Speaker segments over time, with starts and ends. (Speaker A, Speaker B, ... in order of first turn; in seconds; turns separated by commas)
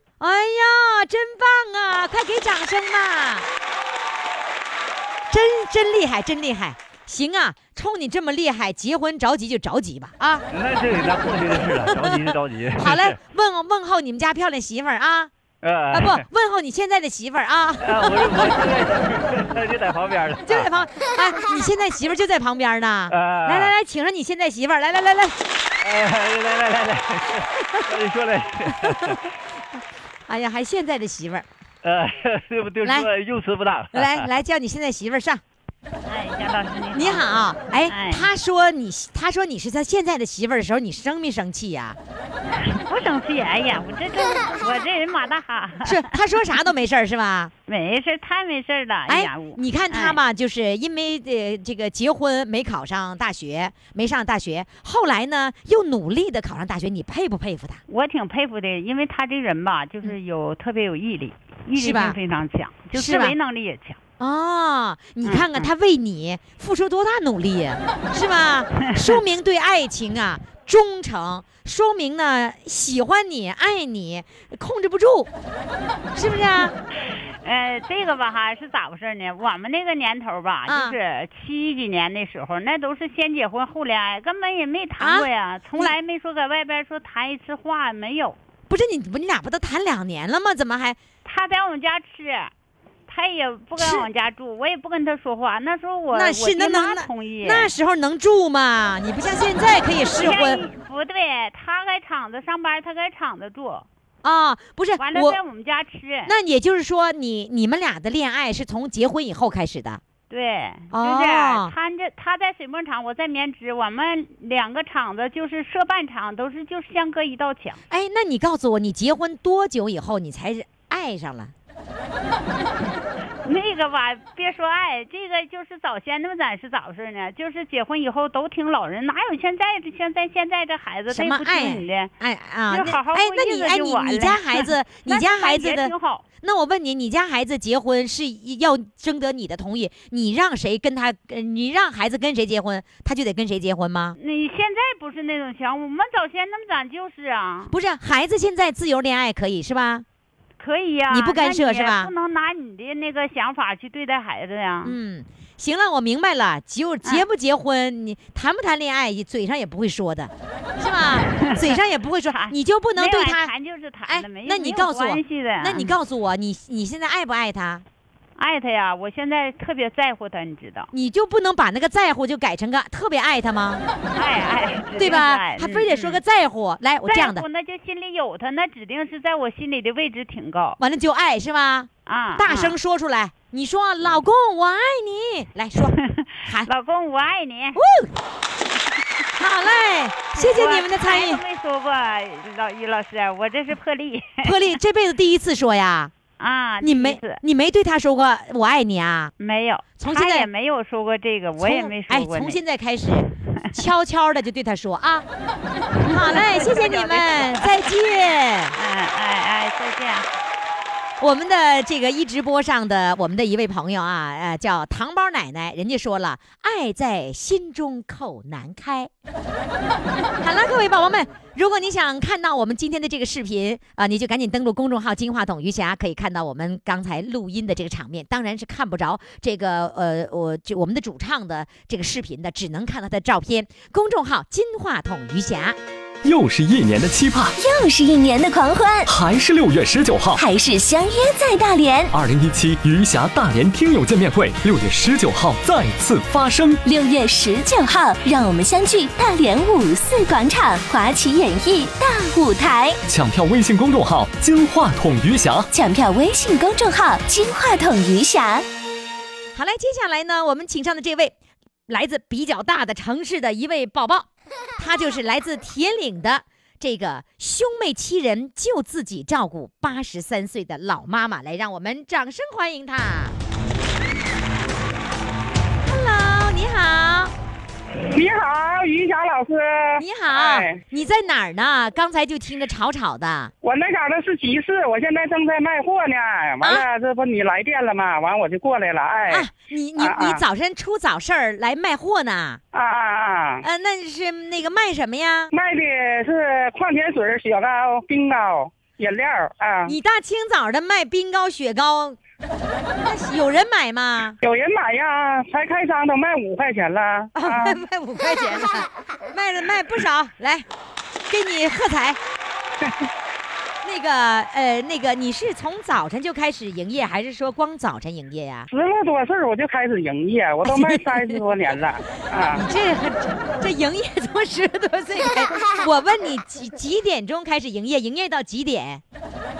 Speaker A: 0.2-3.5, Speaker A: 5.3-10.4, Speaker B: 10.5-13.2, Speaker A: 11.9-15.3, Speaker B: 15.6-16.2, Speaker A: 15.9-18.5, Speaker B: 17.8-20.7, Speaker A: 20.5-25.4, Speaker B: 23.1-23.7, Speaker B: 25.8-29.2, Speaker A: 28.9-29.2, Speaker A: 30.3-31.4, Speaker B: 31.8-34.3, Speaker A: 33.9-35.4, Speaker C: 36.0-37.3, Speaker A: 36.9-42.0, Speaker C: 37.9-38.3, Speaker C: 42.6-46.1, Speaker A: 45.8-47.5, Speaker C: 47.7-50.2, Speaker A: 49.1-57.8, Speaker C: 57.9-64.0, Speaker A: 61.8-62.2, Speaker A: 62.9-63.4, Speaker A: 64.2-75.3, Speaker C: 65.2-65.7, Speaker A: 76.2-76.8, Speaker C: 77.4-88.4, Speaker A: 80.7-81.0, Speaker A: 85.0-86.0, Speaker A: 88.7-91.0, Speaker C: 91.2-92.5, Speaker C: 93.1-97.7, Speaker A: 93.8-94.1, Speaker A: 96.1-100.6, Speaker C: 100.2-103.9, Speaker A: 104.2-105.4, Speaker C: 105.0-106.3, Speaker A: 106.3-110.0, Speaker C: 110.3-117.8, Speaker A: 110.9-111.7, Speaker A: 117.9-121.5, Speaker C: 123.4-132.1, Speaker A: 131.1-144.2, Speaker C: 132.7-136.2, Speaker C: 144.2-147.8, Speaker A: 147.7-150.1, Speaker C: 150.6-155.0, Speaker A: 151.1-152.1, Speaker A: 154.8-163.5, Speaker C: 161.2-161.8, Speaker C: 162.3-165.9, Speaker A: 164.1-167.8, Speaker C: 168.4-170.9, Speaker A: 170.9-173.8, Speaker C: 174.1-176.2, Speaker A: 175.0-177.4, Speaker C: 177.1-180.8, Speaker A: 180.8-185.9, Speaker C: 182.1-182.8, Speaker C: 185.9-187.8, Speaker A: 187.8-188.1, Speaker A: 189.4-191.4, Speaker C: 190.3-194.6, Speaker A: 194.4-196.1, Speaker C: 196.4-197.4, Speaker A: 196.8-199.3, Speaker C: 199.4-202.6, Speaker A: 200.0-200.5, Speaker A: 201.6-205.3, Speaker C: 203.3-203.8, Speaker C: 206.0-207.9, Speaker A: 206.1-208.8, Speaker C: 208.8-210.3, Speaker A: 211.2-219.1, Speaker A: 220.4-235.8, Speaker D: 236.2-237.6, Speaker E: 237.6-239.1, Speaker D: 239.1-240.4, Speaker E: 240.4-242.1, Speaker D: 242.1-246.8, Speaker E: 246.8-253.0, Speaker D: 253.1-255.7, Speaker E: 255.7-258.6, Speaker A: 259.5-261.3, Speaker A: 261.9-273.4, Speaker A: 275.9-277.3, Speaker F: 278.1-280.8, Speaker A: 280.0-283.5, Speaker F: 283.6-290.4, Speaker A: 289.3-292.6, Speaker F: 292.7-293.6, Speaker A: 293.6-295.5, Speaker F: 295.5-299.9, Speaker A: 299.9-302.2, Speaker A: 303.0-304.4, Speaker F: 304.4-307.8, Speaker A: 307.4-310.6, Speaker A: 311.3-312.2, Speaker A: 313.8-318.7, Speaker F: 318.7-322.6, Speaker A: 320.6-321.4, Speaker A: 322.5-329.0